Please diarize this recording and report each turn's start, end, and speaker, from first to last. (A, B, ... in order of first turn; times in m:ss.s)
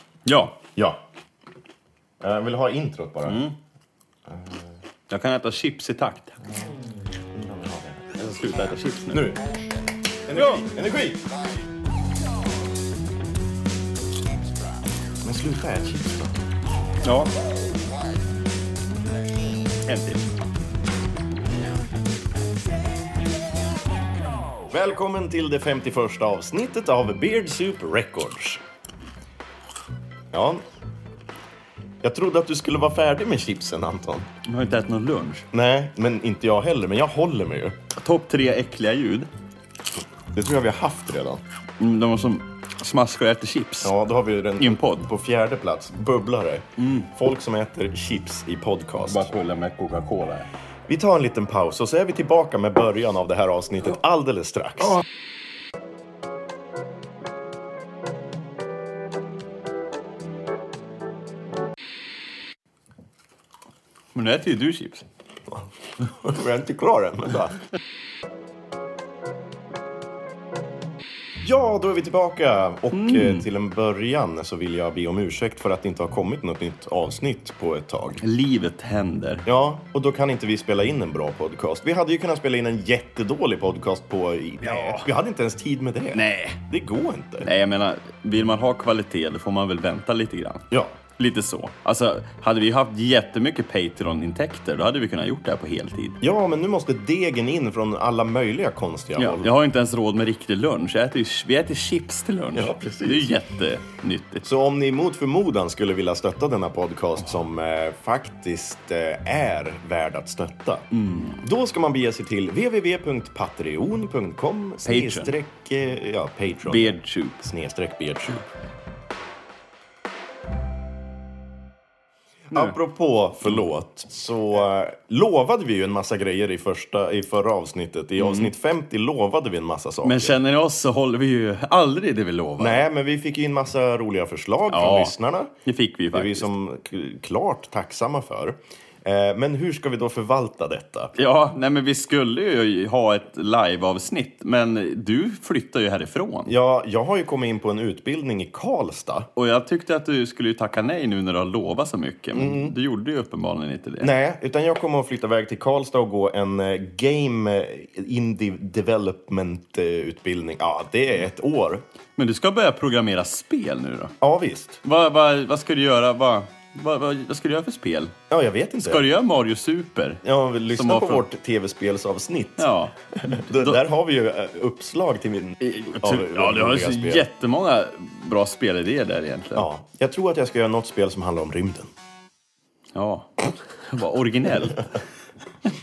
0:00.2-0:00.6 A
0:02.2-0:03.4 B
0:03.2-0:03.6 A
0:04.3-0:04.7 B
0:05.1-0:06.4 A
0:07.3-0:08.1 B
0:08.1-0:09.3 A
0:09.1-0:09.4 B
0:10.3-0:11.2 B
0:10.3-0:10.6 A
0:15.2-0:16.3 B
0:17.0-0:17.3 A
0:19.8-0:20.2 A
0:24.7-0:28.6 B
0:30.3-0:30.6 B
0:32.0-0:34.3 B
0:34.4-0:35.5 A
0:35.5-0:37.8 B
0:38.0-0:39.3 A
0:40.3-0:41.4 B
0:41.8-0:43.9 A
0:43.8-0:49.3 B
0:44.6-0:45.1 A
0:46.8-0:47.1 A
0:49.0-0:50.5 A
0:50.9-0:55.0 B
1:04.1-1:05.0 A
1:05.5-1:07.6 B
1:11.4-1:18.2 B
1:12.9-1:13.4 A
1:18.2-1:19.4 A
1:19.4-1:27.5 B
1:24.6-1:25.1 A
1:26.1-1:26.6 A
1:27.4-1:36.2 A
1:36.2-1:39.5 B
1:39.2-1:44.4 A
1:42.5-1:43.3 B
1:44.4-1:50.8 B
1:50.9-1:51.4 A
1:51.4-1:58.4 B
1:54.8-1:55.3 A
1:56.6-1:57.5 A
2:02.5-2:10.4 B
2:08.2-2:08.5 A
2:10.0-2:12.8 A
2:12.6-2:15.5 B
2:14.7-2:15.1 A
2:15.6-2:16.5 A
2:16.1-2:21.1 B
2:21.1-2:26.5 A
2:26.4-2:29.3 B
2:29.4-2:34.1 A
2:32.3-2:32.8 B
2:34.0-2:41.8 B
2:42.2-2:44.1 A
2:44.2-2:44.8 B
2:44.8-2:48.1 A
2:48.3-2:49.1 B
2:48.8-2:51.2 A
2:50.2-2:57.3 B
2:52.6-2:53.8 A
2:55.6-2:59.7 A
2:59.6-3:01.9 B
3:02.9-3:04.9 A